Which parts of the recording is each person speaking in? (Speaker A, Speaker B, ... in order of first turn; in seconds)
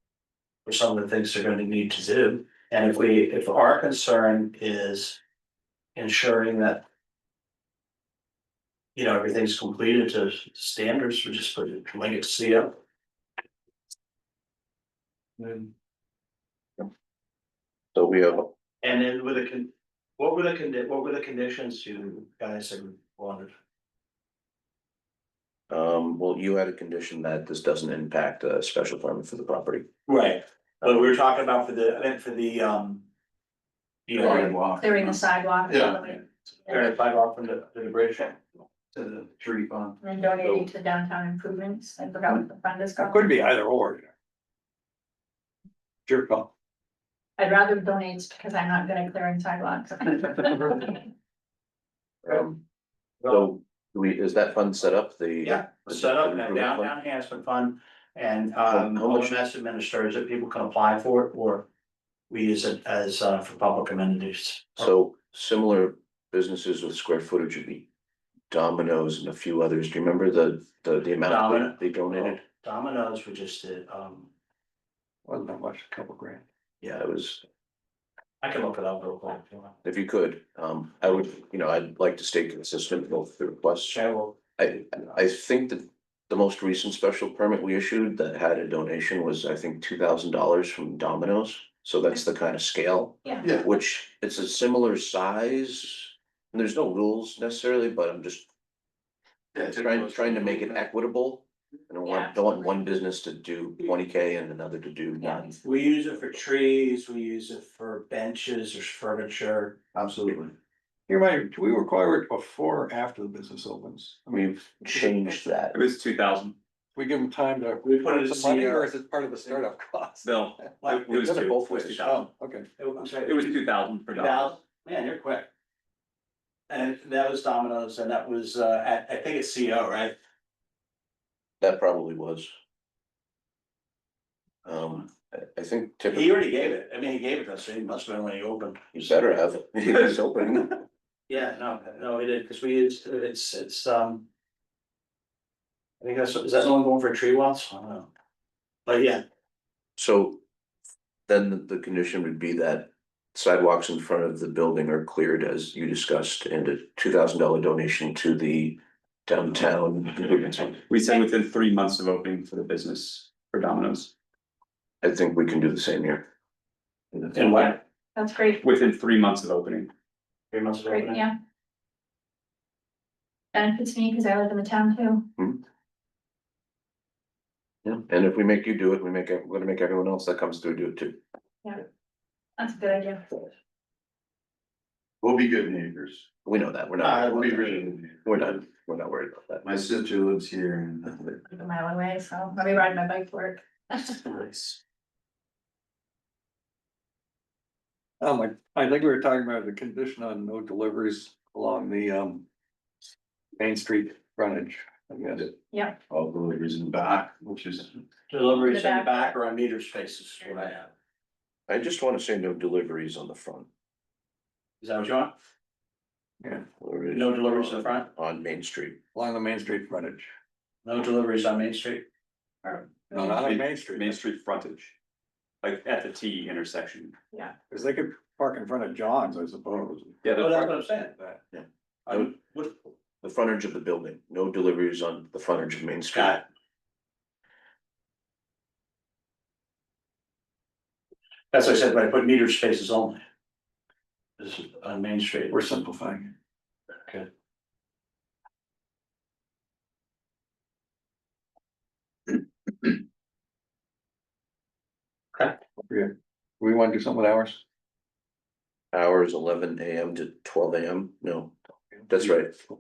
Speaker A: 0.7-5.2, 6.0-6.8, 9.0-12.8, 15.4-15.7, 18.8-23.5, 30.1-33.1, 34.1-35.2, 36.7-38.4, 55.4-61.7, 62.3-64.9, 71.2-74.3, 78.4-79.8, 83.9-84.4, 105.6-110.2, 117.8-118.9, 120.8-121.1, 122.8-123.6, 124.1-125.5, 126.7-130.2, 136.1-139.1, 141.3-144.3, 146.0-148.1, 148.9-149.2, 167.3-167.7, 170.5-171.2, 208.3-210.9, 214.8-215.3, 217.1-218.1, 220.8-222.1, 230.4-231.1, 232.1-232.8, 236.1-236.4, 241.5-243.2, 244.4-245.6
Speaker B: 17.9-18.5, 25.7-29.9, 52.2-52.6, 53.3-56.9, 58.7-59.4, 64.8-67.9, 68.5-72.4, 76.8-77.4, 79.8-84.0, 84.6-98.5, 99.7-105.5, 114.3-115.8, 121.5-121.7, 131.6-132.5, 134.7-136.4, 138.9-140.8, 150.0-150.4, 151.3-160.8, 165.0-166.2, 177.8-181.2, 186.4-189.7, 211.7-213.7, 216.8-219.0, 231.5-232.4, 233.2-236.4, 258.9-261.5, 262.1-262.6
Speaker C: 34.2-36.8, 40.0-43.3, 47.4-51.0, 93.3-93.6, 102.0-102.8, 105.2-105.6, 168.2-168.6, 170.9-171.3, 173.5-175.3, 182.6-183.5, 191.5-194.8, 205.7-206.0, 208.7-209.2, 222.7-223.0
Speaker D: 35.7-36.0, 39.0-39.9, 99.5-100.7, 110.0-110.2, 185.2-186.3, 187.2-188.2, 189.6-191.2, 206.1-208.0
Speaker E: 43.0-44.1, 46.1-46.5, 75.3-76.4, 111.1-115.1, 117.0-122.7, 198.2-202.5, 203.6-205.5, 219.1-220.3, 223.1-224.2, 227.7-230.2, 245.5-246.3, 255.8-257.6
Speaker F: 115.7-116.6, 120.2-122.3, 123.2-124.6, 160.9-164.1, 167.3-167.8, 168.6-169.9, 223.1-224.9, 225.6-227.2, 230.2-230.7